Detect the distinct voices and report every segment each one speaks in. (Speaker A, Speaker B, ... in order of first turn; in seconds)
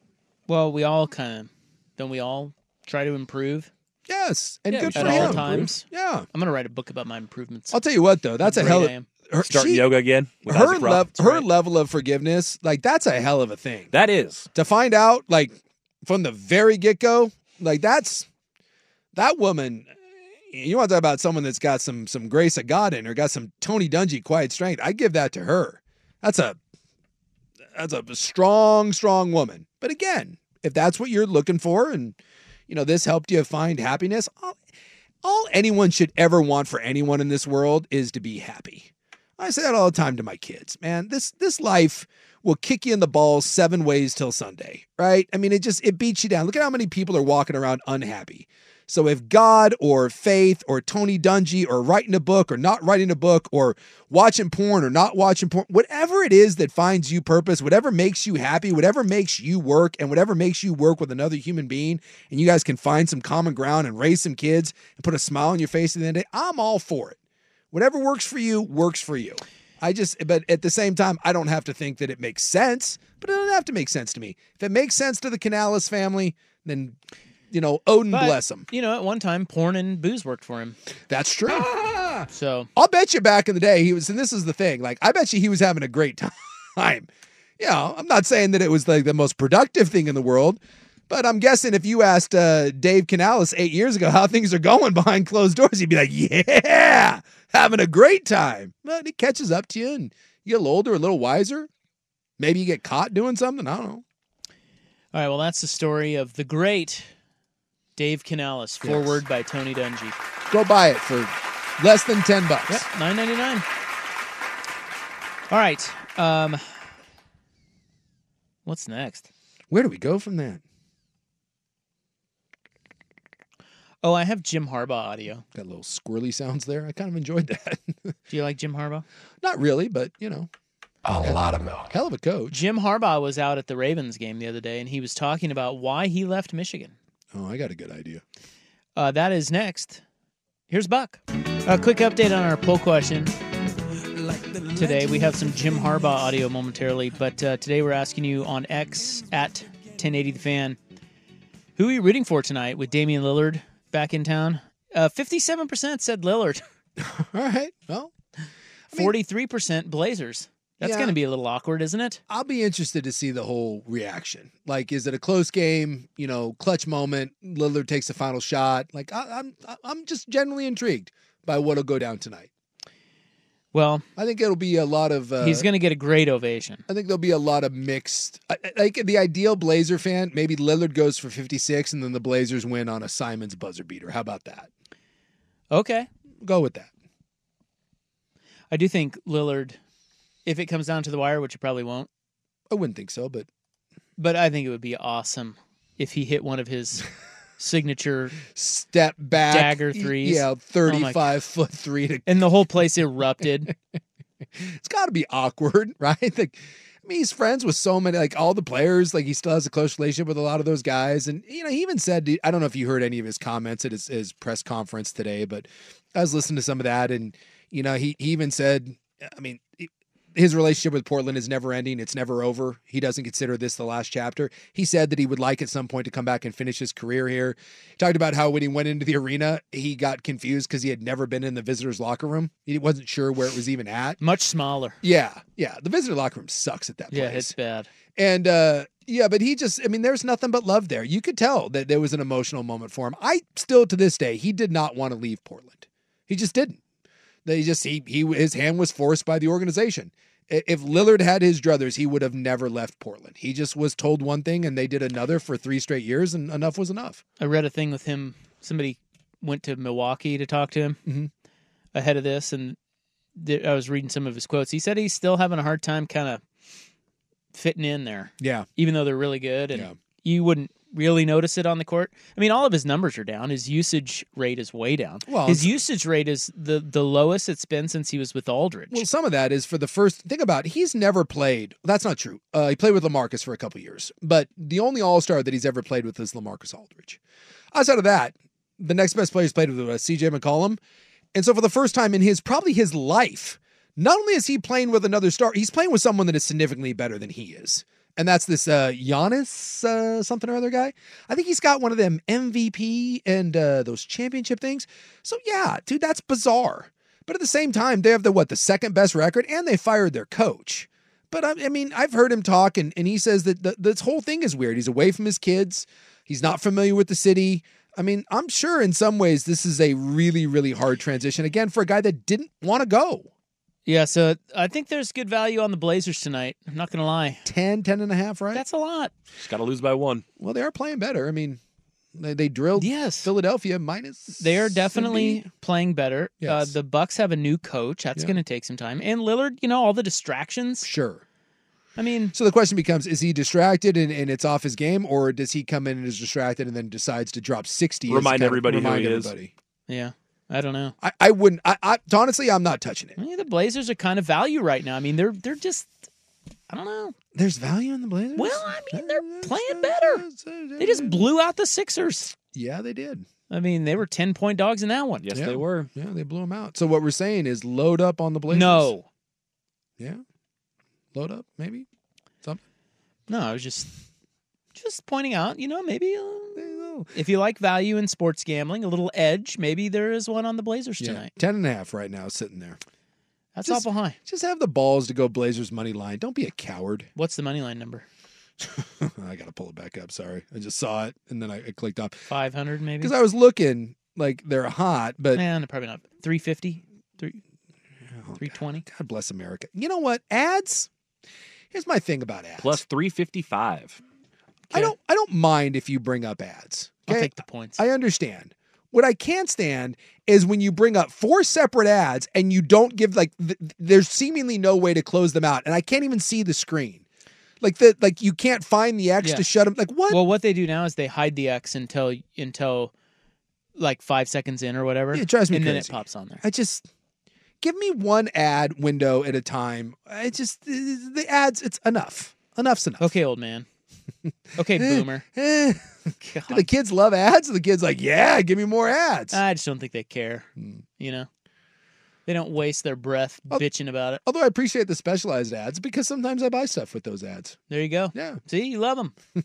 Speaker A: 0.5-3.7, 5.0-7.8, 8.4-9.1, 78.1-80.8, 82.3-82.7, 105.1-107.1, 108.0-110.2, 112.7-113.7, 115.5-116.6, 118.7-119.3, 124.0-125.5, 128.3-129.1, 132.5-136.9, 139.0-140.0, 140.7-143.3, 144.7-150.8, 151.8-156.6, 158.9-162.2, 173.7-174.1, 175.4-176.8, 185.7-186.1, 188.7-189.8, 190.4-192.1, 194.2-197.1, 197.6-198.4, 199.4-201.2, 202.3-203.7, 234.2-235.0, 237.1-237.9, 257.4-261.0, 261.9-262.8, 263.4-266.4, 267.5-279.1, 323.9-327.4, 328.5-329.1, 332.8-333.3, 334.4-340.9, 342.0-342.3, 349.9-350.9, 353.2-355.9, 356.7-357.1, 358.4-360.2, 360.8-362.4, 363.5-365.3, 368.5-369.1, 373.3-373.9, 374.8-381.3, 383.6-384.2, 387.2-388.1, 392.3-393.1, 395.4-397.4, 398.4-398.9, 407.1-407.8, 420.1-422.9, 423.8-426.4, 433.0-433.7, 434.6-435.2, 436.2-436.7, 439.3-441.3, 442.3-444.2, 447.7-449.1
Speaker B: 4.1-6.3, 7.7-9.8, 10.4-13.9, 14.5-18.3, 19.1-19.9, 20.5-26.6, 27.7-32.2, 32.7-34.6, 35.2-67.2, 67.7-77.0, 77.5-78.7, 81.1-82.1, 82.8-101.7, 102.4-104.0, 108.8-109.2, 110.5-112.9, 119.7-120.6, 125.5-128.1, 129.4-130.5, 131.2-132.6, 137.3-138.2, 157.0-158.1, 160.8-161.2, 162.3-172.5, 174.2-175.7, 176.9-184.7, 186.4-186.9, 192.7-193.5, 198.5-202.3, 204.6-234.2, 235.0-237.5, 238.2-246.8, 247.4-257.2, 261.1-261.3, 268.4-268.7, 275.3-275.8, 278.9-287.2, 287.7-290.8, 291.3-323.3, 327.4-328.6, 330.4-331.6, 332.1-335.5, 336.4-336.7, 340.8-341.2, 342.3-349.5, 351.0-353.2, 357.3-361.3, 362.5-363.3, 365.3-368.9, 371.1-371.9, 376.6-377.1, 381.0-382.8, 383.6-387.1, 388.6-392.3, 393.0-395.4, 398.1-400.9, 401.7-402.8, 404.7-417.0, 417.6-420.2, 425.1-426.9, 427.6-433.1, 434.8-435.9, 436.5-439.4, 444.2-447.6, 448.1-448.4
Speaker C: 4.7-5.7, 9.4-11.5, 13.9-14.5, 329.4-330.2, 348.1-349.3, 365.2-365.9, 402.6-404.0